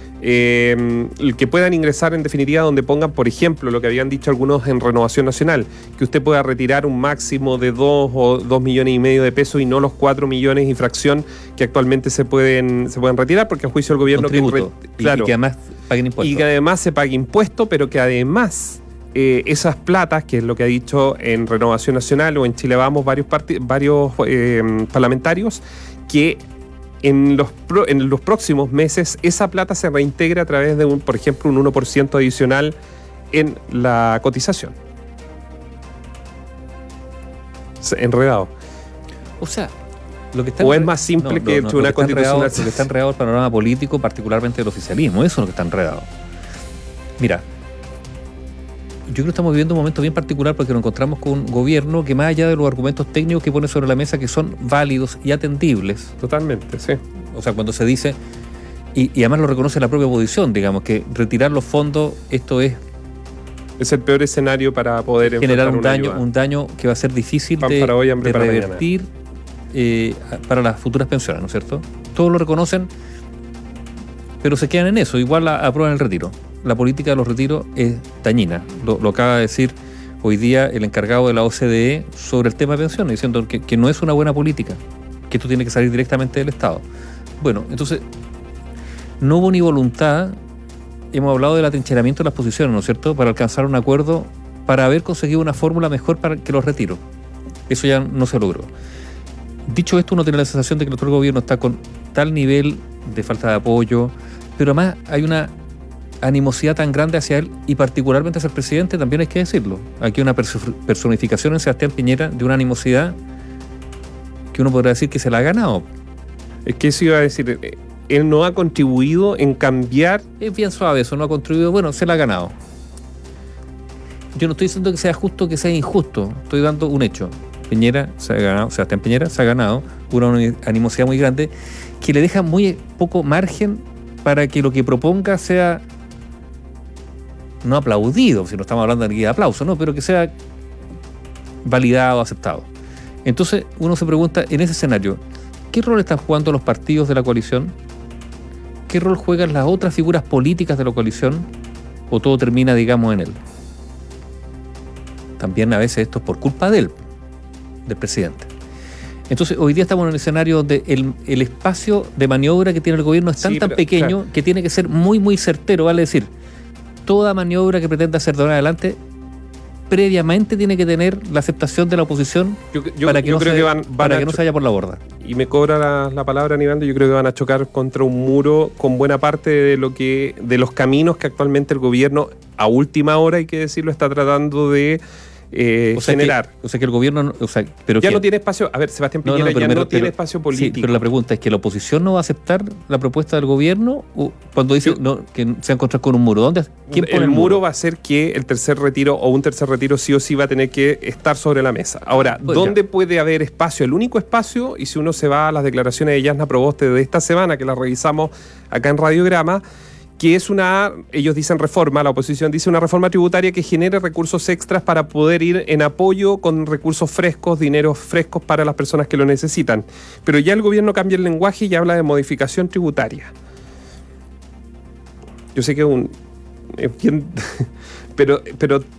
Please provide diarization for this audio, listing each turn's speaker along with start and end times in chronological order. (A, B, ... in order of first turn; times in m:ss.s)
0:00.2-0:15.3 A
0:14.1-0:16.5 B
0:16.2-0:26.4 A
0:27.0-0:32.7 A
0:33.3-0:34.7 A
0:37.8-0:38.5 A
0:39.4-0:39.7 B
0:40.3-0:46.1 B
0:40.6-0:42.9 A
0:47.2-0:47.4 B
0:49.1-0:56.1 B
0:56.2-0:57.0 A
0:57.3-0:58.2 B
0:58.9-1:02.8 B
1:03.8-1:06.2 A
1:05.2-1:09.1 B
1:07.6-1:08.8 A
1:09.7-1:12.9 B
1:14.4-1:26.8 B
1:27.4-1:28.0 B
1:29.2-1:30.4 B
1:31.1-1:37.0 B
1:37.7-1:38.7 B
1:39.6-1:45.5 B
1:46.2-1:53.2 B
1:54.5-1:55.9 B
1:56.6-2:00.2 A
2:00.4-2:02.6 B
2:04.3-2:15.8 B
2:17.6-2:20.3 B
2:21.6-2:22.7 B
2:23.2-2:27.7 B
2:28.9-2:31.5 B
2:32.1-2:33.4 B
2:35.4-2:37.0 B
2:37.8-2:38.5 B
2:39.3-2:46.3 B
2:43.4-2:44.2 A
2:47.0-2:49.0 B
2:49.9-2:55.0 B
2:52.7-2:54.4 A
2:55.2-3:06.5 A
3:05.9-3:08.2 B
3:08.0-3:11.0 A
3:09.2-3:17.6 B
3:16.9-3:29.6 A
3:22.1-3:22.8 B
3:30.2-3:43.3 A
3:45.5-3:46.1 A
3:46.7-3:48.9 A